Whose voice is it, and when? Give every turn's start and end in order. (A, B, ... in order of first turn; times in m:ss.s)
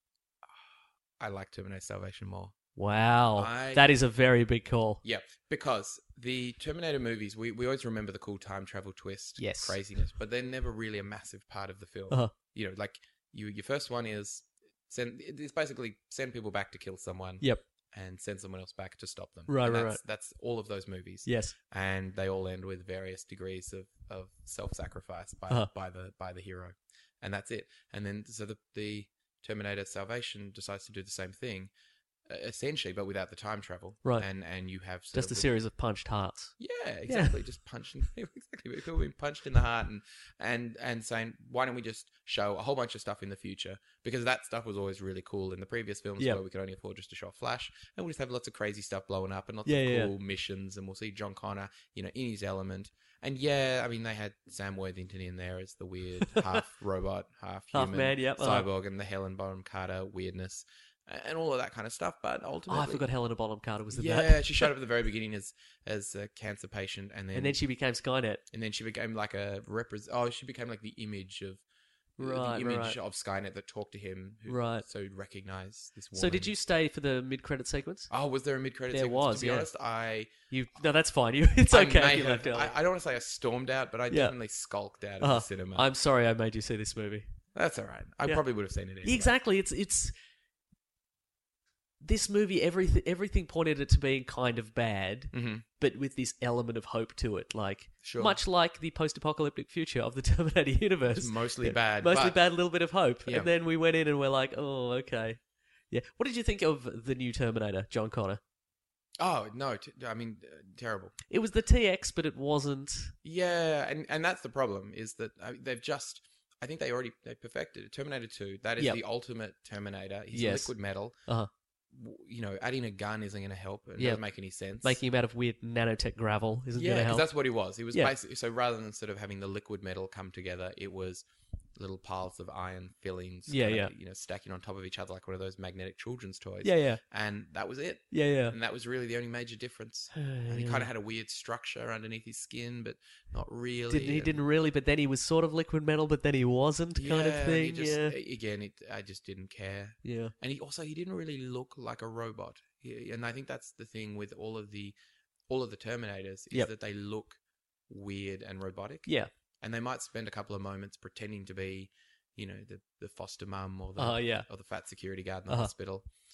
0:00.5-0:02.6 A
0:02.8-0:05.0 B
0:03.4-0:03.9 A
0:05.0-0:31.7 A
0:09.4-0:09.8 B
0:19.5-0:20.0 B
0:21.2-0:21.5 B
0:32.3-0:35.5 A
0:35.1-0:36.5 B
0:36.6-1:03.0 A
0:37.1-0:37.4 B
0:49.6-0:50.1 B
0:56.2-0:56.6 B
0:57.7-0:58.7 B
1:02.7-1:04.7 B
1:03.9-1:07.6 A
1:07.3-1:08.4 B
1:08.5-1:11.6 A
1:12.2-1:16.5 A
1:12.2-1:13.0 B
1:14.5-1:14.8 B
1:16.1-1:18.1 B
1:18.1-1:20.4 A
1:18.9-1:19.7 B
1:20.5-1:22.7 B
1:21.7-1:25.9 A
1:25.2-1:27.3 B
1:27.5-1:29.3 A
1:29.0-1:30.1 B
1:32.0-1:45.4 B
1:35.3-1:35.6 A
1:38.0-1:38.4 A
1:41.1-1:42.4 A
1:45.9-1:48.4 B
1:49.2-1:51.1 A
1:51.3-1:53.1 B
1:53.2-2:01.2 A
2:00.3-2:00.7 B
2:01.9-2:05.0 A
2:04.8-2:07.3 B
2:06.7-2:24.4 A
2:13.5-2:13.9 B
2:16.6-2:17.0 B
2:18.1-2:18.6 B
2:20.1-2:20.9 B
2:23.9-2:28.1 B
2:26.9-2:35.0 A
2:30.0-2:30.3 B
2:35.5-2:46.0 A
2:44.0-2:44.5 B